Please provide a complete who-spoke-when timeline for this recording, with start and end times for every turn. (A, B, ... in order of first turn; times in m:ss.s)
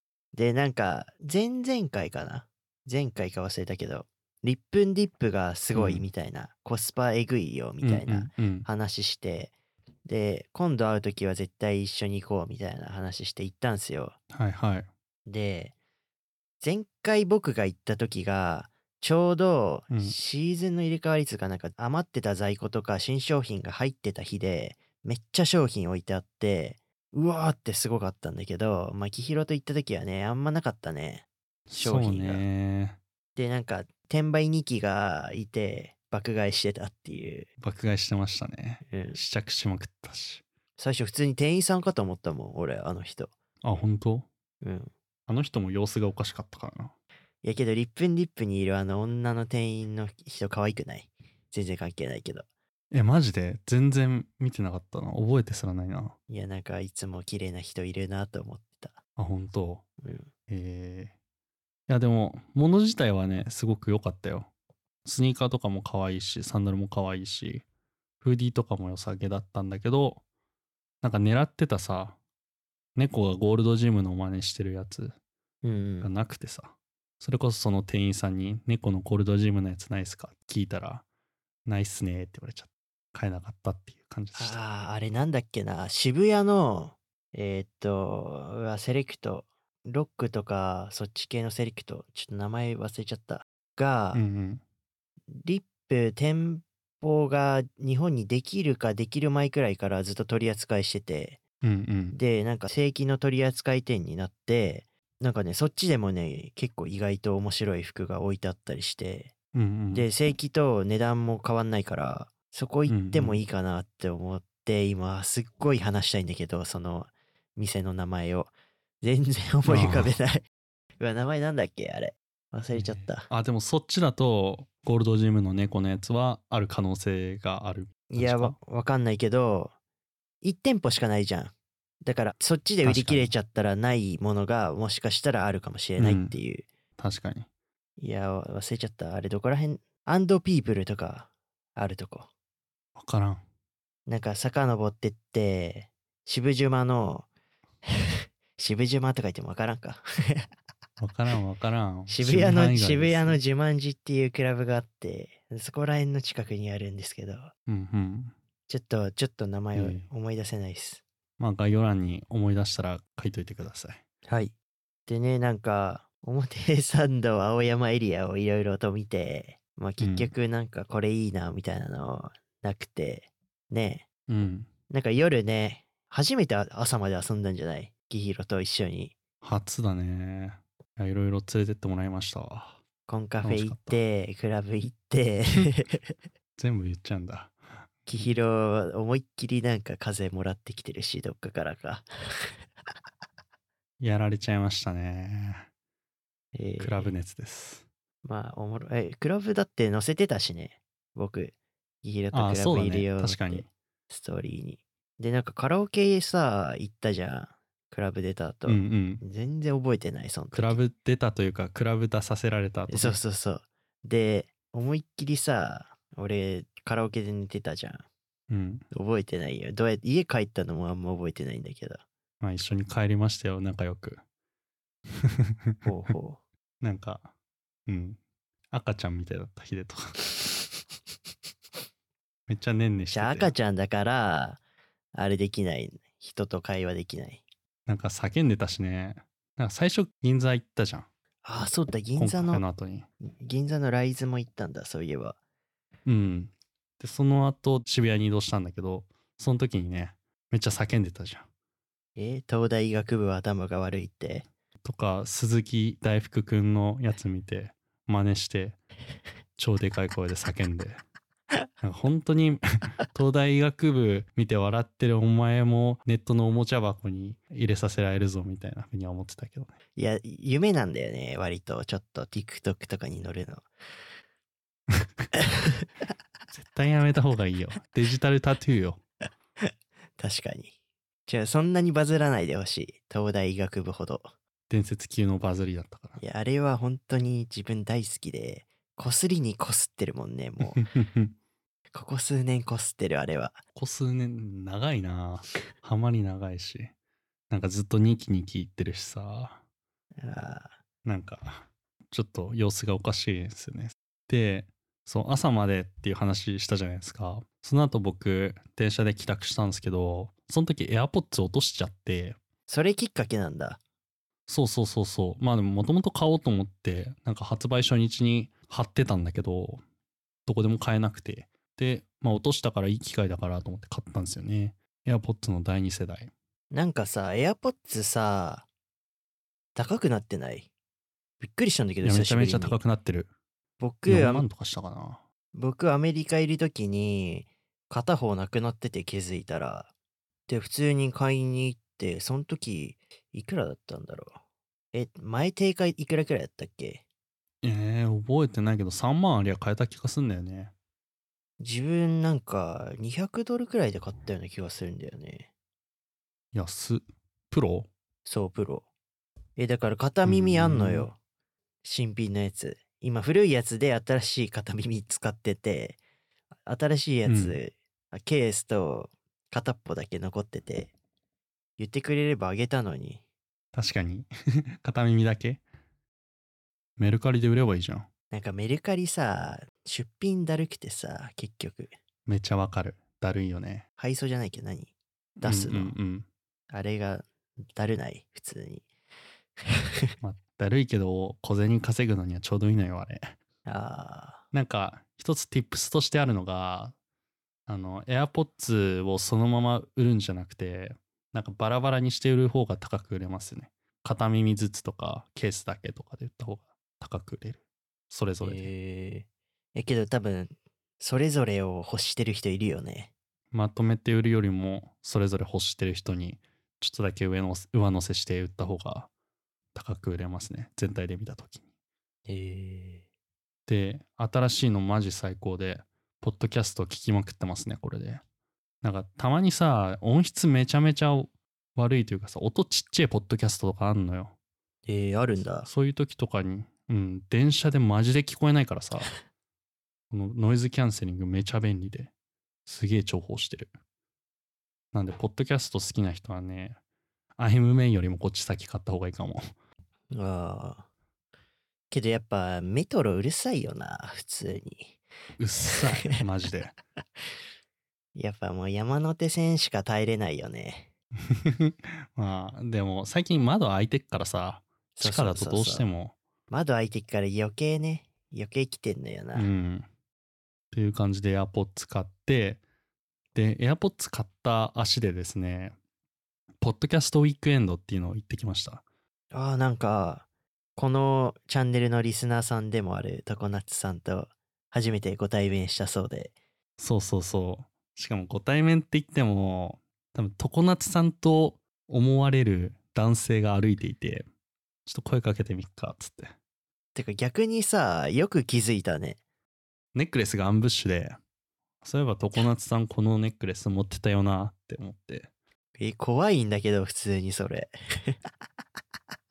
0:00.3-0:09.5 A
0:05.7-0:06.0 B
0:07.8-0:08.7 B
0:10.1-0:14.2 A
0:14.3-0:14.9 B
0:15.3-0:15.7 A
0:16.6-0:32.4 A
0:19.9-0:20.2 B
0:31.7-0:33.0 B
0:33.4-0:37.5 A
0:37.6-0:40.4 B
0:38.9-0:39.2 A
0:40.8-0:43.3 A
0:43.6-0:44.3 B
0:44.6-0:44.9 A
0:45.3-0:46.9 B
0:47.4-0:52.5 A
0:52.9-0:56.2 B
0:56.3-0:59.0 A
0:59.2-0:59.8 B
1:00.0-1:00.3 A
1:00.5-1:01.1 B
1:01.9-1:04.5 B
1:05.0-1:07.6 B
1:08.2-1:10.2 B
1:11.0-1:12.2 B
1:13.0-1:15.2 B
1:15.6-1:16.1 A
1:16.0-1:21.0 B
1:21.7-1:24.6 B
1:24.4-1:34.2 A
1:34.1-1:34.6 B
1:35.3-1:41.4 A
1:41.6-1:42.2 B
1:42.1-1:49.3 A
1:49.5-1:50.1 B
1:49.9-2:00.4 A
1:52.9-1:53.4 B
1:59.7-2:00.2 B
2:01.0-2:03.3 A
2:02.7-2:08.6 B
2:08.1-2:09.7 A
2:10.4-2:16.7 A
2:12.8-2:13.3 B
2:16.0-2:16.4 B
2:17.0-2:17.5 B
2:18.0-2:22.3 A
2:23.0-2:23.4 B
2:24.1-2:27.3 A
2:28.0-2:30.5 A
2:31.0-2:33.4 B
2:32.1-2:37.5 A
2:37.7-2:38.3 B
2:38.7-2:41.0 A
2:39.8-2:40.1 B
2:41.4-2:44.0 B
2:44.3-2:44.5 A
2:45.1-2:54.1 A
2:50.0-2:50.3 B
2:54.3-2:54.7 B
2:54.9-2:59.2 A
2:59.4-3:02.8 B
3:03.1-3:06.1 A
3:03.4-3:04.0 B
3:06.6-3:07.6 B
3:08.1-3:12.1 A
3:14.0-3:15.7 B
3:16.5-3:17.1 A
3:16.8-3:17.9 B
3:18.2-3:30.8 A
3:22.3-3:23.7 B
3:28.7-3:29.2 B
3:30.5-3:33.2 B
3:32.9-3:38.1 A
3:38.5-3:38.8 B
3:38.9-3:42.0 A
3:42.4-3:44.2 B
3:45.2-3:45.9 B
3:45.8-3:46.4 A
3:46.8-3:47.3 B
3:47.9-3:48.2 B
3:48.7-3:50.2 B
3:52.5-3:53.5 B
3:53.1-3:54.6 A
3:55.1-3:57.4 A
3:57.9-4:01.1 B
4:01.4-4:02.6 A
4:02.2-4:03.1 B
4:03.2-4:05.4 A
4:06.1-4:11.5 B
4:12.2-4:14.5 A
4:14.8-4:18.8 B
4:19.6-4:21.0 B
4:21.8-4:29.8 B
4:30.0-4:33.7 A
4:36.5-4:39.0 B
4:39.6-4:40.7 A
4:41.3-4:44.3 A
4:44.7-4:46.2 B
4:46.2-4:50.9 A
4:50.8-4:51.3 B
4:51.9-4:53.6 A
4:53.8-4:56.9 B
4:57.5-4:59.6 B
5:00.2-5:00.8 A
5:01.0-5:12.4 B
5:12.7-5:13.8 A
5:14.5-5:19.8 B
5:20.5-5:26.3 B
5:26.7-5:28.7 A
5:29.8-5:30.7 A
5:31.4-5:32.8 A
5:32.0-5:33.3 B
5:33.8-5:34.5 A
5:34.1-5:35.2 B
5:35.5-5:39.9 A
5:40.5-5:44.4 A
5:44.9-5:47.0 A
5:47.6-5:50.7 B
5:51.6-5:55.5 A
5:56.5-5:57.9 B
5:58.2-5:58.8 A
5:59.6-6:01.2 A
6:00.2-6:01.1 B
6:01.8-6:06.0 A
6:06.7-6:10.9 A
6:07.3-6:07.6 B
6:11.8-6:13.2 A
6:13.7-6:15.6 B
6:17.0-6:18.1 B
6:18.3-6:21.9 A
6:22.3-6:23.8 B
6:24.0-6:26.0 A
6:25.4-6:26.3 B
6:26.7-6:28.9 A
6:30.2-6:33.4 B
6:33.7-6:34.4 A
6:34.5-6:36.9 B
6:37.7-6:47.6 B
6:48.1-6:48.7 B
6:48.4-6:53.1 A
6:53.5-6:59.1 B
6:59.7-7:01.6 B
7:02.3-7:03.0 A
7:03.7-7:08.2 B
7:08.8-7:14.3 B
7:14.9-7:15.7 A
7:15.6-7:19.1 B
7:20.1-7:22.1 B
7:22.7-7:23.7 B
7:24.9-7:26.8 B
7:27.4-7:29.5 B
7:30.1-7:30.9 A
7:31.9-7:35.0 A
7:35.4-7:36.7 B
7:38.2-7:40.9 A
7:41.3-7:46.2 B
7:45.0-7:45.9 A
7:46.5-7:49.5 A
7:49.4-7:49.9 B
7:50.7-7:52.6 B
7:53.4-7:55.8 B
7:56.6-7:58.8 B
7:59.3-8:06.3 A
8:06.8-8:14.3 B
8:14.9-8:16.3 B
8:16.9-8:19.2 A
8:19.9-8:21.2 B
8:21.8-8:25.3 B
8:25.8-8:28.2 A